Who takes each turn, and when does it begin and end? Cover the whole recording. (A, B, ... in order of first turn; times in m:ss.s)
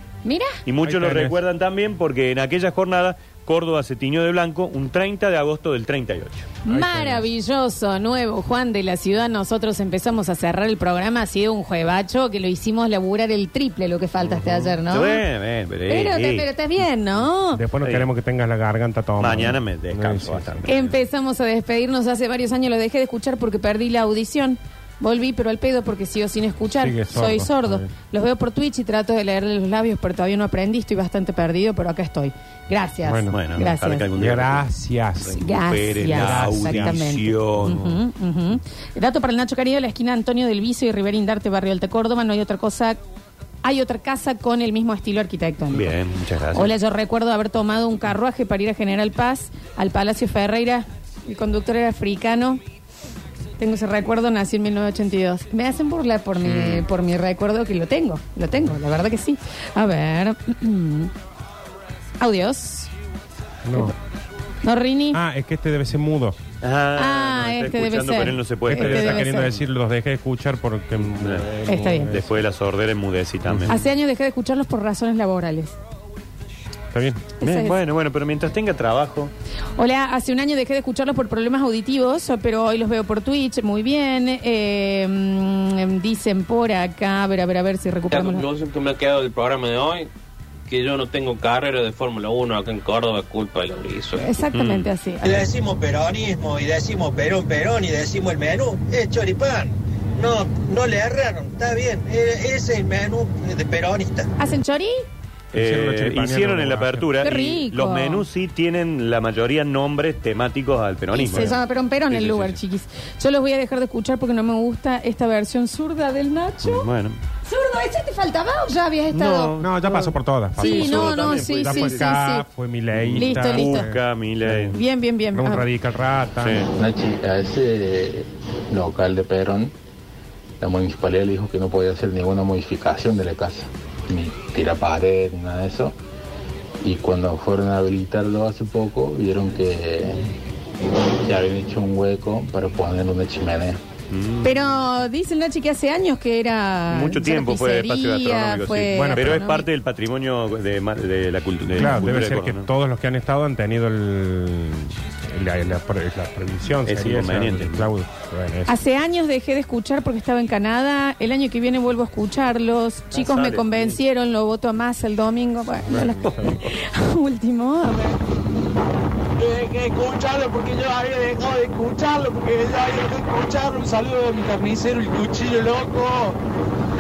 0:00.2-0:00.6 A
0:00.6-0:06.6 B
0:00.8-0:01.4 C
0:06.6-0:15.2 A
0:06.7-0:07.3 C
0:14.2-0:14.7 C
0:14.9-0:16.5 B
0:15.9-0:17.6 A
0:17.5-0:20.7 C
0:17.8-0:18.1 B
0:19.2-0:21.0 B
0:20.6-0:34.0 A
0:26.8-0:27.9 C
0:33.0-0:33.4 C
0:33.3-0:34.6 B
0:34.2-0:37.0 C
0:35.2-0:37.9 B
0:35.3-0:43.0 A
0:37.6-0:38.0 C
0:43.6-0:45.9 A
0:45.7-0:46.7 B
0:46.5-0:52.6 A
0:53.6-1:01.1 A
0:56.4-0:56.8 B
1:02.2-1:02.9 A
1:03.6-1:03.9 C
1:04.6-1:05.2 A
1:05.1-1:06.4 C
1:06.6-1:09.6 B
1:07.0-1:09.5 A
1:08.7-1:12.3 C
1:11.2-1:11.5 B
1:11.6-1:12.1 A
1:12.1-1:13.7 B
1:13.5-1:13.8 C
1:13.7-1:15.7 A
1:16.9-1:17.3 C
1:17.4-1:17.8 A
1:17.4-1:19.3 B
1:19.7-1:28.5 A
1:28.1-1:30.1 D
1:30.7-1:34.2 D
1:34.2-1:35.5 A
1:34.5-1:34.9 B
1:35.2-1:44.3 E
1:44.4-1:45.0 A
1:45.5-1:47.2 C
1:45.5-1:52.6 B
1:47.2-1:48.2 A
1:51.1-1:56.8 A
1:56.6-1:57.2 B
1:57.4-1:59.5 A
1:59.1-2:02.1 B
1:59.6-2:04.8 C
2:00.6-2:02.4 A
2:02.9-2:04.8 B
2:03.2-2:03.8 A
2:04.7-2:05.7 A
2:05.3-2:06.6 C
2:06.4-2:06.7 B
2:06.7-2:09.7 F
2:10.6-2:15.9 F
2:16.8-2:20.2 F
2:21.2-2:23.8 F
2:24.1-2:24.5 B
2:24.4-2:29.7 A
2:26.9-2:32.7 B
2:28.9-2:29.4 C
2:31.7-2:38.7 C
2:36.8-2:37.9 B
2:38.6-2:48.2 A
2:43.1-2:44.0 B
2:45.9-2:46.6 C
2:49.4-2:56.3 G